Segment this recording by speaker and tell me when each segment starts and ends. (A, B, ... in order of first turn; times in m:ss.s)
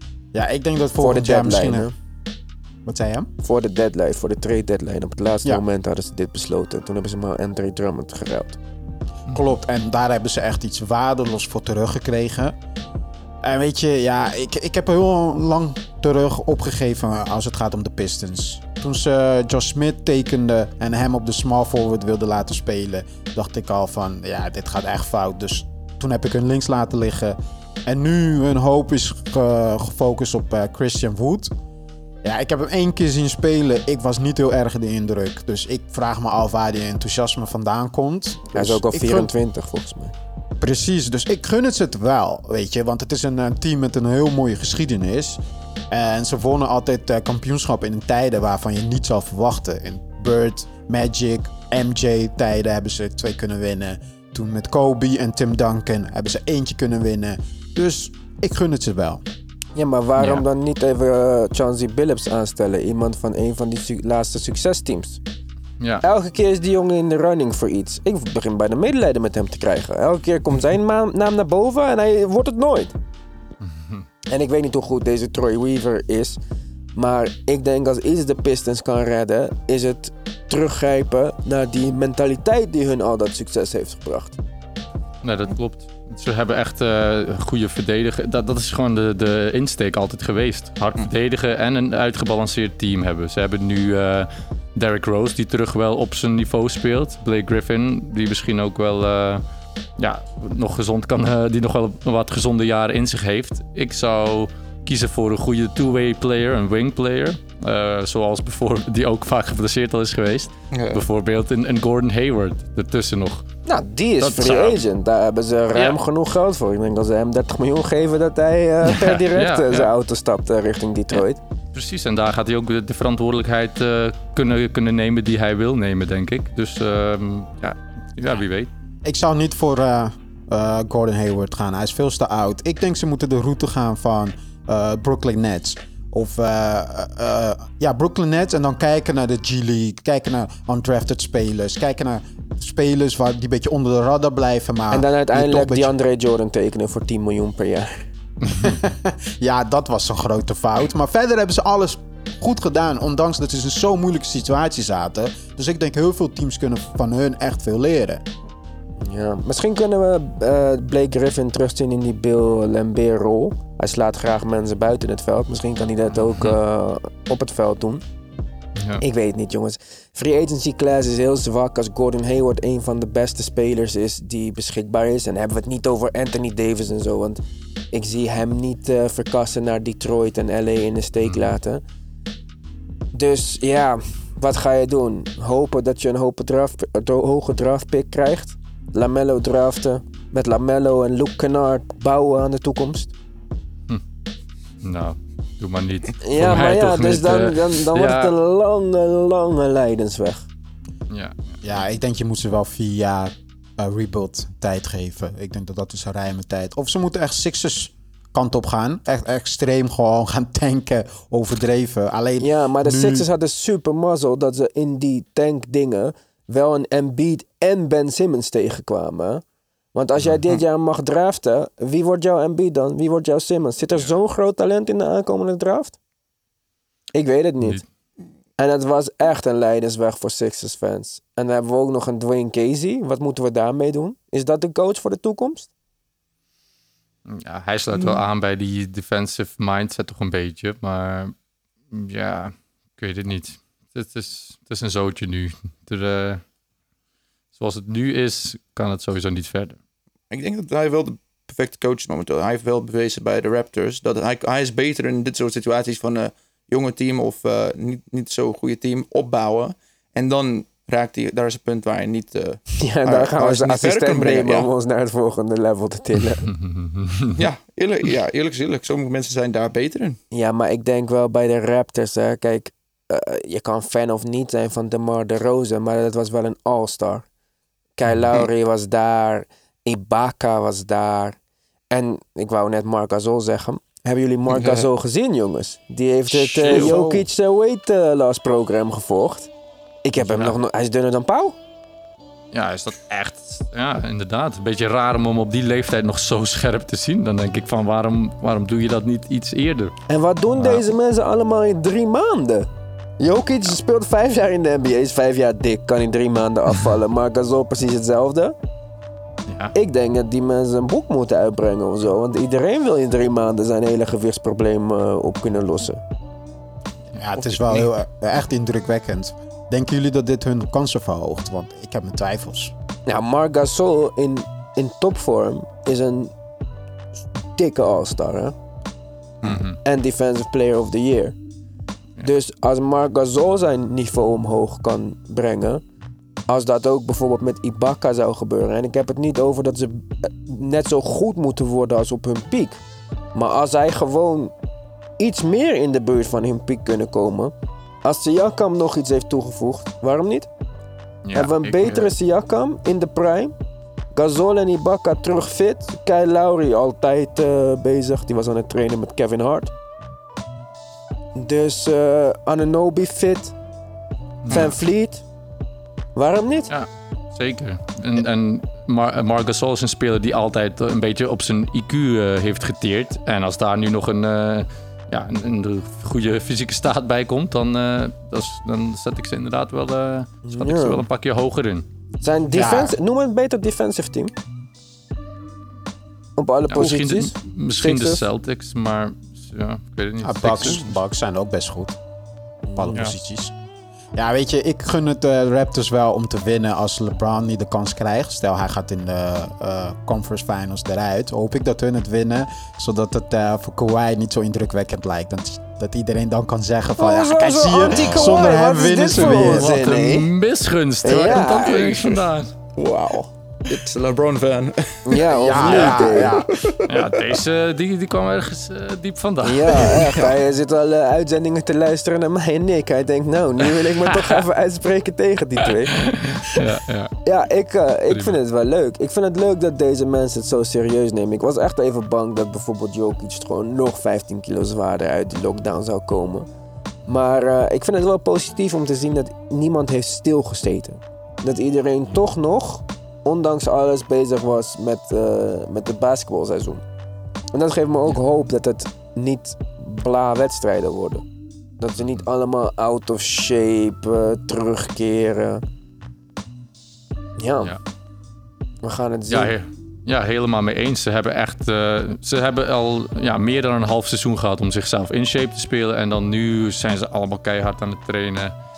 0:00.3-0:01.9 A
0:01.0-0:01.9 B
0:02.9-0:03.3 A
0:03.4-0:08.6 B
0:09.3-0:12.6 A
0:13.4-0:31.5 A
0:32.2-0:39.3 A
0:38.5-0:40.1 B
0:40.6-0:59.2 A
0:59.8-1:05.2 B
1:00.2-1:00.4 C
1:06.0-1:13.0 B
1:13.6-1:14.0 C
1:14.3-1:16.4 B
1:17.0-1:24.4 B
1:25.2-1:39.4 C
1:40.0-1:53.5 C
1:50.7-1:51.0 D
1:53.7-2:01.4 B
1:54.2-1:54.8 C
1:58.8-1:59.9 C
2:01.7-2:08.7 C
2:09.0-2:25.9 A
2:24.9-2:28.1 B
2:28.4-2:28.8 C
2:28.5-2:38.2 A
2:39.0-2:48.0 B
2:46.1-2:46.6 C
2:48.8-2:49.0 C
2:49.0-2:57.4 B
2:57.9-3:01.8 B
3:03.1-3:13.2 B
3:14.8-3:18.4 C
3:16.2-3:20.5 B
3:21.1-3:21.6 C
3:21.6-3:33.3 A
3:32.4-3:46.0 B
3:47.1-3:47.8 B
3:48.6-3:55.7 B
3:57.3-4:01.3 C
4:01.9-4:06.4 C
4:07.6-4:09.8 C
4:10.3-4:24.7 D
4:22.8-4:26.5 B
4:26.4-4:27.4 C
4:27.3-4:30.2 D
4:30.3-4:37.3 B
4:38.0-4:41.4 B
4:41.9-4:49.5 B
4:44.5-4:44.9 D
4:46.3-4:47.0 C
4:46.7-4:47.3 A
4:50.0-4:51.6 B
4:50.2-4:50.6 C
4:52.5-5:00.0 C
5:00.1-5:02.7 B
5:03.2-5:08.6 B
5:09.5-5:09.7 C
5:09.7-5:16.0 B
5:17.2-5:22.7 A
5:17.2-5:17.8 C
5:23.1-5:26.3 B
5:27.6-5:28.6 B
5:29.4-5:29.8 C
5:29.8-5:31.4 B
5:32.2-5:35.8 B
5:36.5-5:42.8 B
5:43.3-5:44.5 B
5:45.2-5:47.5 B
5:48.0-5:50.5 B
5:51.2-5:52.1 C
5:51.3-5:53.5 B
5:54.2-5:59.7 B
6:01.4-6:03.6 B
6:04.4-6:04.7 C
6:04.5-6:05.2 B
6:06.2-6:06.7 B
6:06.7-6:21.9 C
6:20.4-6:21.0 B
6:22.2-6:24.3 B
6:22.5-6:23.0 A
6:26.4-6:28.2 B
6:26.7-6:31.0 C
6:30.2-6:32.0 A
6:32.7-6:33.0 B
6:32.8-6:33.5 A
6:34.2-6:49.8 A
6:47.0-6:50.3 B
6:49.1-6:52.5 C
6:51.0-6:52.0 B
6:51.9-6:52.2 D
6:52.8-6:57.4 D
6:55.1-6:56.4 B
6:55.3-6:56.6 A
6:55.6-6:56.3 C
6:56.8-7:00.4 C
6:59.4-7:06.6 B
7:04.1-7:04.4 C
7:05.8-7:07.1 C
7:07.2-7:16.5 B
7:08.1-7:08.4 C
7:17.1-7:26.8 B
7:27.5-7:31.2 B
7:31.8-7:35.6 B
7:37.4-7:37.8 B
7:38.8-7:39.5 B
7:39.3-7:48.5 C